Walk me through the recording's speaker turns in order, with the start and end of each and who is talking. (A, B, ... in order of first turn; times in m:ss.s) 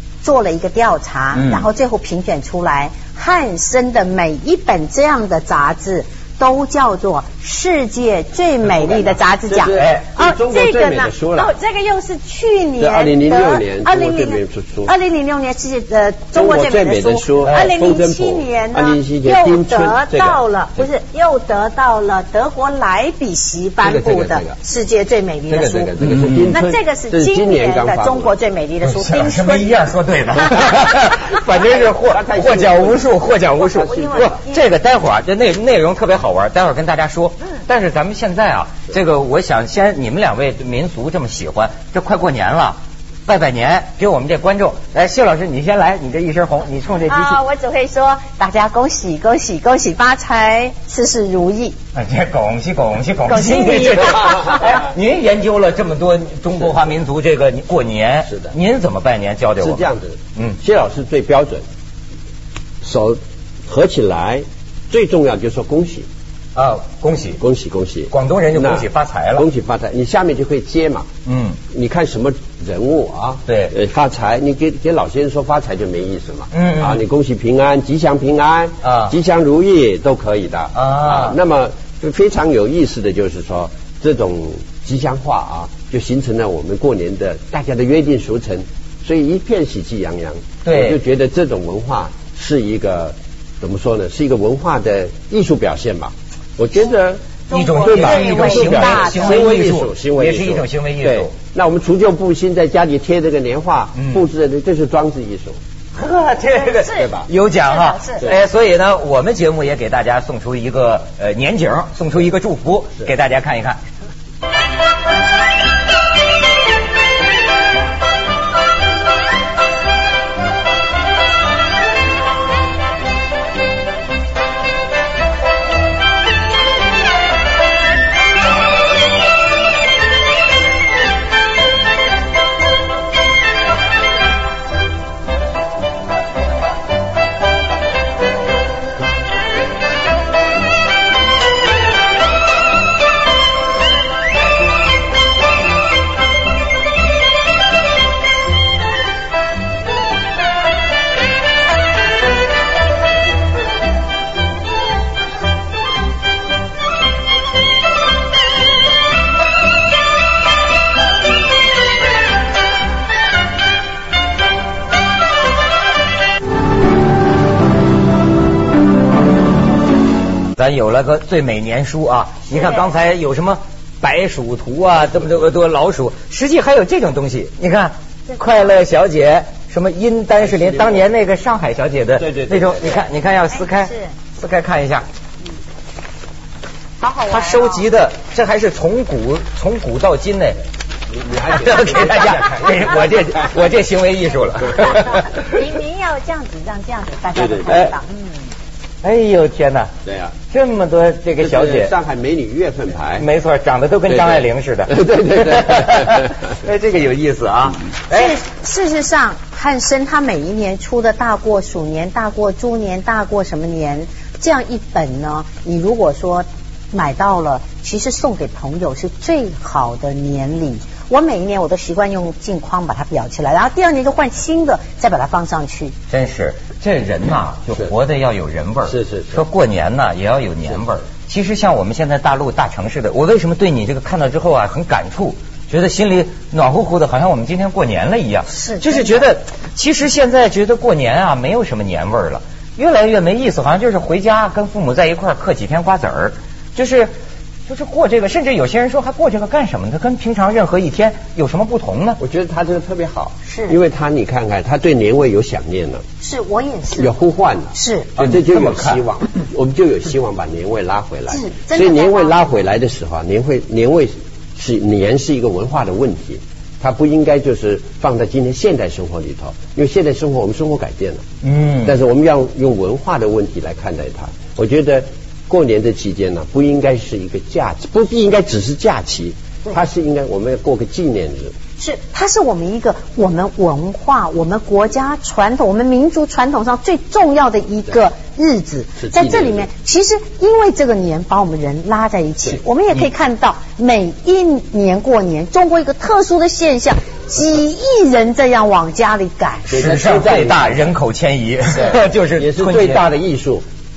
0:00.2-0:25.9 A
0:01.3-0:01.6 B
0:08.8-0:11.5 C
0:09.7-0:10.0 B
0:12.8-0:14.9 C
0:16.3-0:20.9 C
0:17.4-0:17.7 B
0:23.8-0:24.6 C
0:25.5-0:28.3 C
0:26.0-0:26.6 B
0:26.5-0:29.7 A
0:28.8-0:47.4 B
0:31.6-0:34.4 C
0:33.7-0:34.6 A
0:47.1-0:51.8 A
0:51.9-0:59.8 B
0:53.3-0:54.7 A
0:59.6-1:01.6 C
1:02.8-1:06.1 C
1:06.5-1:07.4 B
1:07.4-1:11.1 C
1:08.1-1:09.4 B
1:11.2-1:11.6 B
1:11.7-1:37.2 C
1:13.5-1:13.7 B
1:16.5-1:17.0 B
1:18.8-1:19.1 B
1:20.7-1:21.4 B
1:30.6-1:31.0 B
1:37.5-1:39.5 A
1:37.5-1:41.3 B
1:37.8-1:45.6 C
1:43.9-1:44.2 B
1:45.9-1:53.8 B
1:46.5-1:47.1 A
1:46.9-1:47.3 C
1:47.6-1:48.2 A
2:50.6-3:05.0 B
3:00.4-3:01.0 C
3:02.2-3:03.0 C
3:03.5-3:04.1 A
3:07.0-3:07.9 A
3:07.3-3:10.6 B
3:11.1-3:13.6 C
3:11.5-3:15.3 B
3:14.9-3:18.3 A
3:17.4-3:17.8 C
3:17.7-3:17.9 B
3:19.0-3:19.9 B
3:20.0-3:20.4 C
3:20.5-3:21.9 B
3:21.4-3:23.2 C
3:23.2-3:28.3 B
3:24.1-3:26.4 C
3:28.1-3:45.9 A
3:46.1-4:07.1 B
3:48.9-3:49.4 C
3:58.5-3:59.2 A
4:07.7-4:12.2 B
4:12.2-4:16.0 C
4:13.4-4:13.8 A
4:16.2-4:17.1 A
4:17.0-4:31.2 C
4:17.7-4:18.1 A
4:18.2-4:19.0 B
4:21.3-4:22.4 A
4:31.4-4:32.0 B
4:31.8-4:41.5 C
4:41.8-4:59.7 A
4:49.0-4:49.7 C
4:59.7-5:00.9 C
4:59.7-5:03.0 B
5:01.7-5:03.6 C